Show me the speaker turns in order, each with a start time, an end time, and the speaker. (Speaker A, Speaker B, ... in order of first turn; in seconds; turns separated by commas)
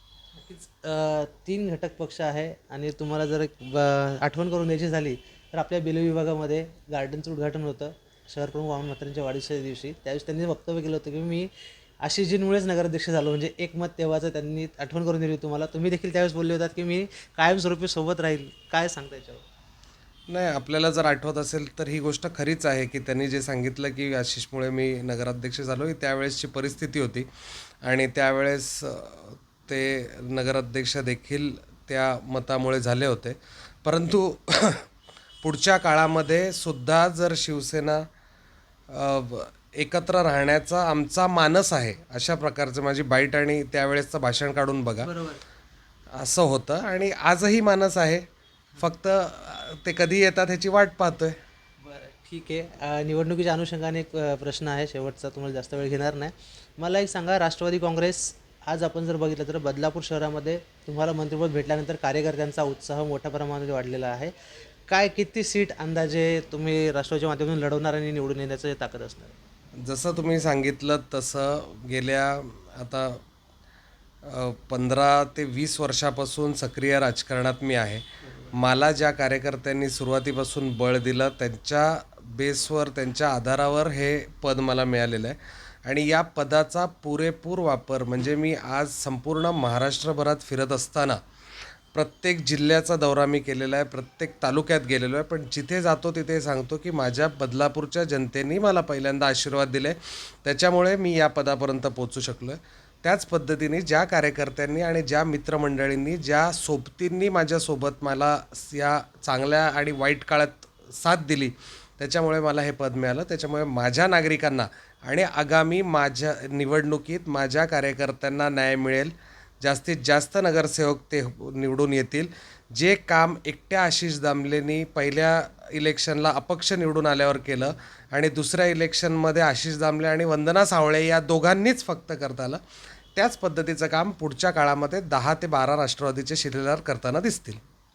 Speaker A: 0.3-11.5, Speaker A: 12.0-19.4, Speaker B: 20.3-27.3, Speaker B: 27.8-34.9, Speaker B: 35.4-38.0, Speaker B: 38.9-45.1, Speaker A: 45.0-45.4, Speaker B: 46.1-48.2, Speaker B: 48.8-51.3, Speaker A: 51.8-64.3, Speaker A: 64.9-69.3, Speaker B: 69.8-73.2, Speaker B: 74.2-91.2, Speaker B: 91.9-132.6, Speaker B: 133.2-137.6